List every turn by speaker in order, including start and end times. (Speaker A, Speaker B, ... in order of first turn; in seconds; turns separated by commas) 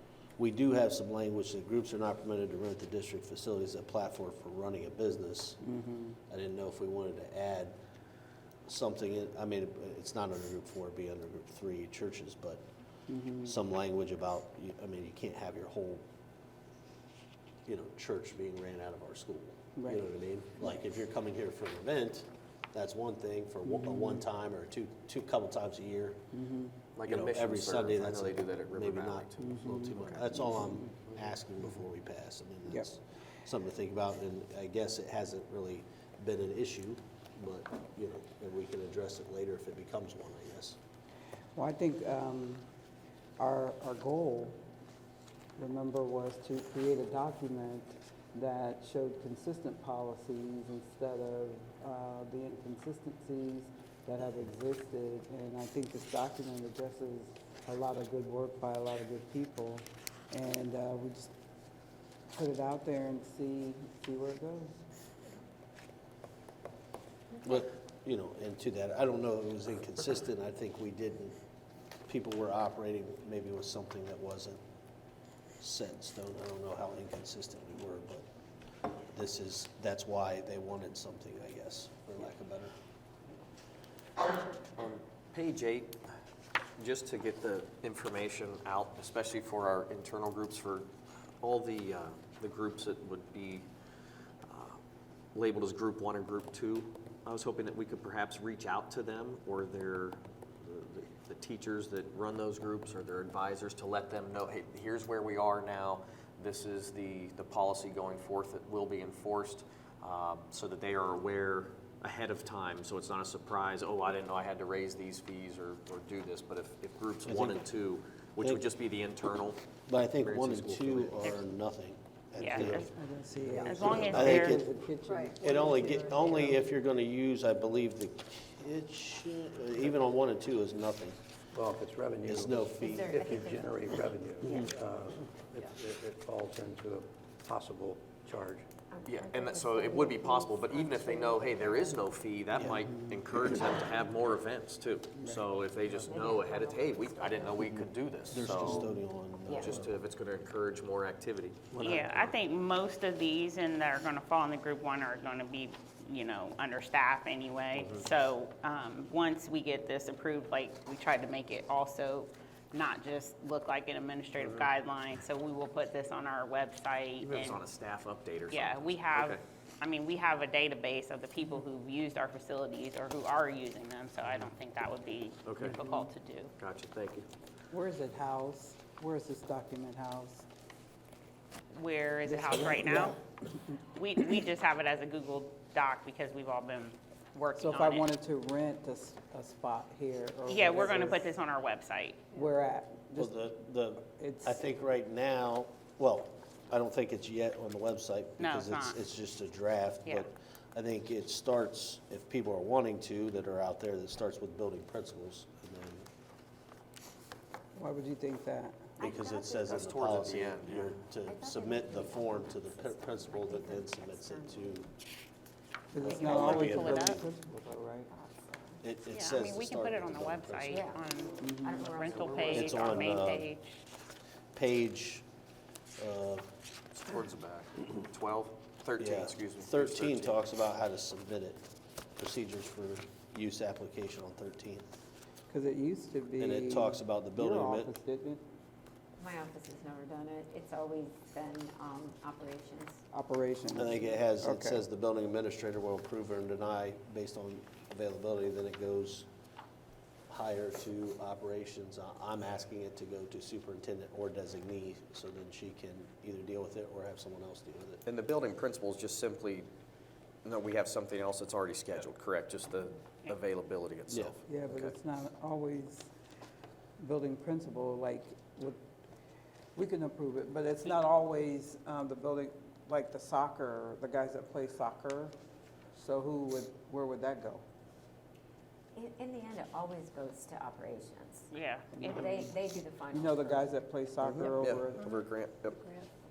Speaker A: 0.4-5.6, Speaker B: 5.6-6.2, Speaker A: 6.3-7.8, Speaker A: 8.7-12.6, Speaker B: 13.1-13.5, Speaker A: 13.4-16.0, Speaker A: 17.7-26.2, Speaker B: 19.8-20.1, Speaker B: 23.6-24.2, Speaker B: 26.3-26.7, Speaker C: 27.0-29.5, Speaker A: 27.1-40.8, Speaker B: 29.4-30.9, Speaker B: 41.5-42.7, Speaker B: 43.4-44.6, Speaker B: 45.6-61.3, Speaker B: 62.3-64.7, Speaker A: 67.4-71.3, Speaker A: 72.1-74.6, Speaker A: 75.6-78.2, Speaker A: 79.1-82.7, Speaker C: 84.8-86.0, Speaker C: 86.8-93.7, Speaker C: 94.4-94.8, Speaker C: 95.3-121.2, Speaker A: 117.2-117.6, Speaker A: 119.9-122.9, Speaker D: 122.3-122.9, Speaker B: 122.8-126.5, Speaker E: 123.4-124.4, Speaker A: 123.5-124.7, Speaker D: 123.6-124.6, Speaker A: 125.4-131.2, Speaker E: 131.5-138.7, Speaker A: 132.2-133.2, Speaker F: 132.8-133.8, Speaker F: 134.4-134.7, Speaker F: 138.9-142.2, Speaker C: 139.1-148.9, Speaker F: 146.0-147.9, Speaker A: 148.3-149.9, Speaker F: 149.4-149.8, Speaker C: 149.6-152.1, Speaker D: 151.8-167.6, Speaker C: 157.7-158.0, Speaker C: 167.2-169.4, Speaker D: 168.5-176.5, Speaker C: 175.4-175.8, Speaker B: 175.6-176.1, Speaker C: 176.6-177.3, Speaker B: 177.7-180.4, Speaker D: 181.7-183.2, Speaker B: 182.2-183.2, Speaker D: 183.9-188.1, Speaker B: 187.6-191.3, Speaker D: 190.5-192.3, Speaker B: 192.3-193.3, Speaker A: 193.2-206.1, Speaker B: 194.1-194.6, Speaker D: 198.4-199.0, Speaker B: 207.8-209.0, Speaker F: 209.0-209.9, Speaker A: 209.0-214.9, Speaker C: 209.7-210.9, Speaker F: 211.2-214.9, Speaker B: 215.9-218.1, Speaker F: 216.0-216.9, Speaker A: 216.1-217.2, Speaker D: 216.2-217.2, Speaker F: 218.1-218.8, Speaker A: 218.8-221.0, Speaker D: 219.1-223.8, Speaker F: 220.7-222.6, Speaker B: 221.4-221.8, Speaker C: 222.2-222.8, Speaker A: 222.4-223.5, Speaker A: 224.5-225.2, Speaker A: 226.0-226.5, Speaker C: 226.9-230.4, Speaker A: 229.0-231.6, Speaker A: 232.2-234.9, Speaker B: 235.5-238.4, Speaker A: 236.4-237.9, Speaker F: 239.2-243.0, Speaker B: 243.1-244.8, Speaker A: 243.7-249.3, Speaker A: 250.3-258.0, Speaker C: 258.1-259.7, Speaker C: 260.4-264.9, Speaker A: 264.1-264.3, Speaker B: 264.4-266.1, Speaker B: 267.0-268.8, Speaker B: 269.7-275.3, Speaker B: 275.9-277.6, Speaker F: 278.9-281.5, Speaker D: 281.5-282.3, Speaker B: 281.9-282.5, Speaker F: 282.0-283.7, Speaker B: 283.1-285.2, Speaker C: 284.2-285.8